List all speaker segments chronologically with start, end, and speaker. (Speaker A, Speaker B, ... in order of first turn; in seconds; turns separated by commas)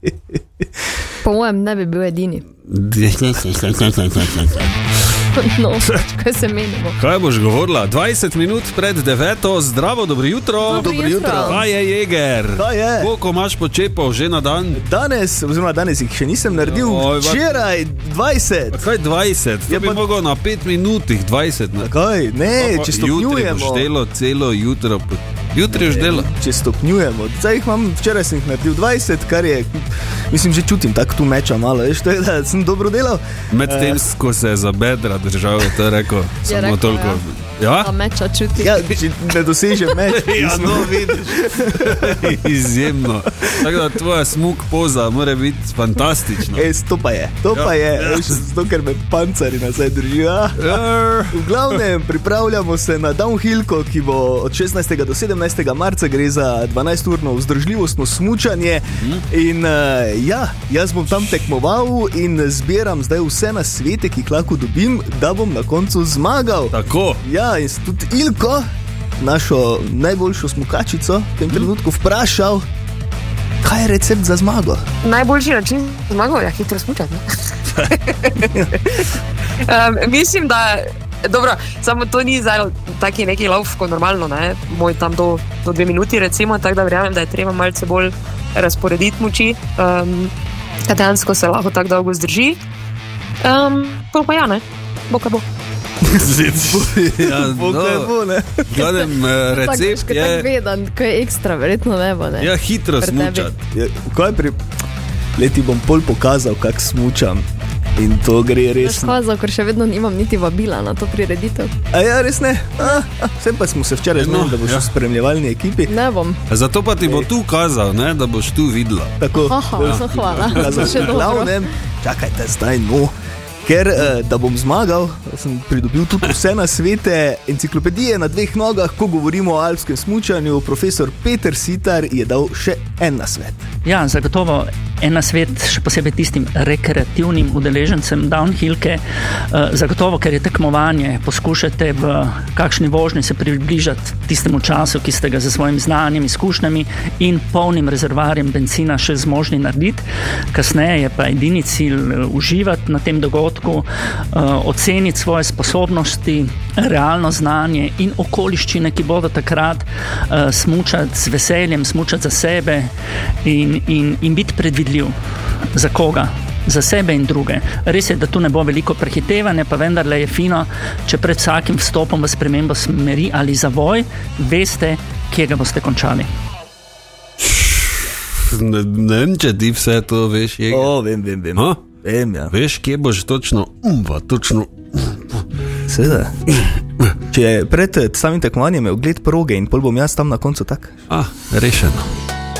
Speaker A: 1.2-2.4, Speaker B: 2.7-4.7, Speaker A: 5.4-7.0, Speaker B: 7.0-14.8, Speaker A: 10.7-11.6, Speaker C: 10.9-11.4, Speaker C: 12.6-13.1, Speaker C: 14.8-18.8, Speaker B: 16.5-17.7, Speaker B: 18.7-21.9, Speaker C: 19.7-20.0, Speaker C: 21.8-23.9, Speaker B: 22.5-26.3, Speaker C: 25.7-34.0, Speaker B: 33.5-37.9, Speaker A: 36.5-37.2, Speaker A: 37.8-39.0, Speaker C: 38.6-42.4, Speaker B: 39.9-46.7, Speaker C: 46.5-50.8, Speaker B: 47.5-48.4, Speaker B: 50.6-51.8, Speaker C: 51.3-68.6, Speaker B: 59.0-59.2, Speaker B: 61.1-61.5, Speaker B: 66.7-67.2, Speaker C: 69.2-72.7, Speaker C: 73.6-74.8, Speaker D: 75.0-77.3, Speaker D: 79.7-90.3, Speaker D: 90.9-92.6, Speaker D: 93.4-95.4, Speaker B: 96.2-98.1, Speaker C: 96.5-98.8, Speaker B: 98.7-100.5, Speaker A: 99.6-102.5, Speaker B: 102.4-103.6, Speaker A: 103.0-103.5, Speaker C: 103.7-104.6, Speaker C: 105.4-107.5, Speaker C: 108.0-109.2, Speaker A: 108.7-111.7, Speaker C: 111.9-116.0, Speaker B: 114.2-115.0, Speaker A: 115.9-116.4, Speaker B: 116.5-121.3, Speaker C: 117.0-117.3, Speaker C: 119.2-123.1, Speaker A: 119.5-121.5, Speaker C: 123.6-133.7, Speaker E: 133.8-162.9, Speaker E: 163.4-165.2, Speaker E: 165.7-176.3, Speaker B: 178.5-181.0, Speaker C: 180.7-182.5, Speaker B: 181.6-181.8, Speaker B: 182.5-185.4, Speaker C: 185.9-186.3, Speaker C: 187.3-190.9, Speaker B: 191.1-192.1